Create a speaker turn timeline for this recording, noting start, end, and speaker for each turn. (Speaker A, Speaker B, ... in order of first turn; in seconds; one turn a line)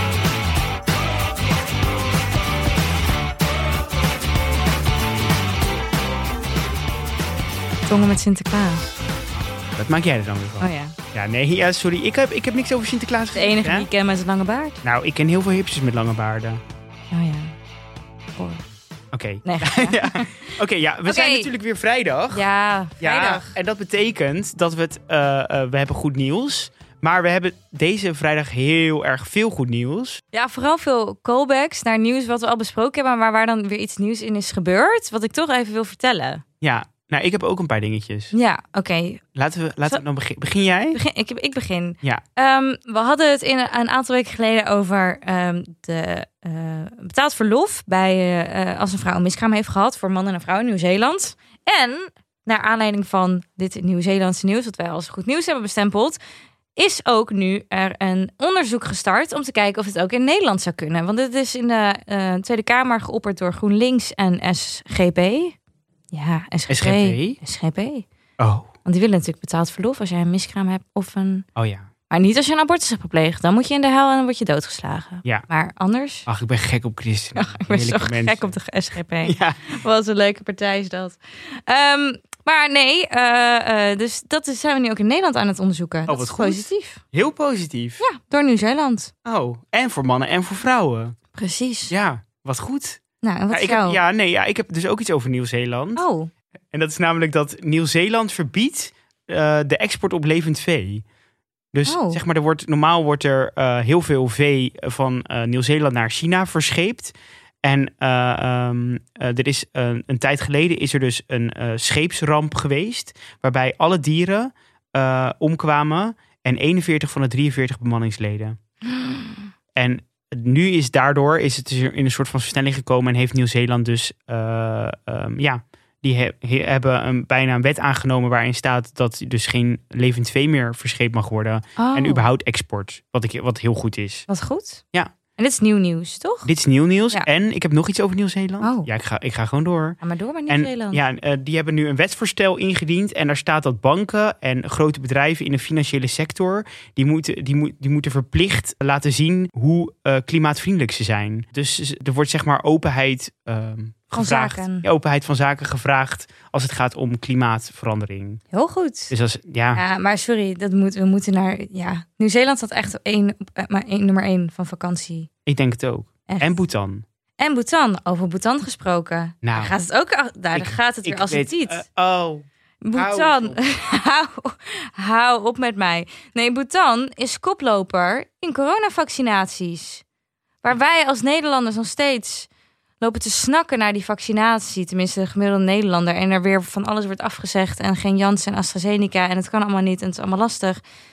Speaker A: 7.8-8.9
Speaker B: 9.7-13.9
Speaker A: 10.6-11.0
Speaker A: 13.3-14.8
Speaker B: 14.8-16.6
Speaker A: 17.1-17.5
Speaker A: 18.4-18.6
Speaker B: 19.1-22.5
Speaker A: 19.4-21.5
Speaker A: 22.3-23.5
Speaker B: 23.0-30.2
Speaker A: 30.3-36.4
Speaker B: 36.6-38.3
Speaker A: 38.3-39.2
Speaker B: 39.4-41.0
Speaker A: 40.9-56.2
Speaker A: 56.8-65.5
Speaker A: 66.1-68.0
Speaker B: 66.7-67.4
Speaker B: 68.4-68.7
Speaker A: 68.8-71.4
Speaker B: 71.5-71.9
Speaker A: 72.1-76.2
Speaker B: 76.2-78.5
Speaker A: 77.3-87.0
Speaker B: 79.2-79.7
Speaker B: 86.1-88.0
Speaker A: 88.0-89.1
Speaker B: 89.2-91.2
Speaker A: 91.3-91.9
Speaker B: 91.9-93.0
Speaker A: 93.2-94.0
Speaker B: 93.5-96.0
Speaker A: 96.0-96.3
Speaker B: 96.7-101.0
Speaker B: 101.7-118.6
Speaker A: 101.8-102.2
Speaker A: 118.9-119.4
Speaker B: 119.7-134.2
Speaker A: 131.8-132.3
Speaker A: 134.3-134.8
Speaker A: 135.4-136.5
Speaker B: 136.4-158.4
Speaker A: 138.6-138.9
Speaker A: 140.0-141.0
Speaker A: 154.1-154.8
Speaker A: 158.5-159.1
Speaker B: 159.1-159.8
Speaker A: 159.8-165.3
Speaker B: 165.4-167.0
Speaker A: 166.3-166.6
Speaker A: 167.4-171.8
Speaker B: 169.4-169.8
Speaker B: 170.5-173.6
Speaker A: 172.8-180.0
Speaker A: 180.6-182.5
Speaker A: 183.0-190.8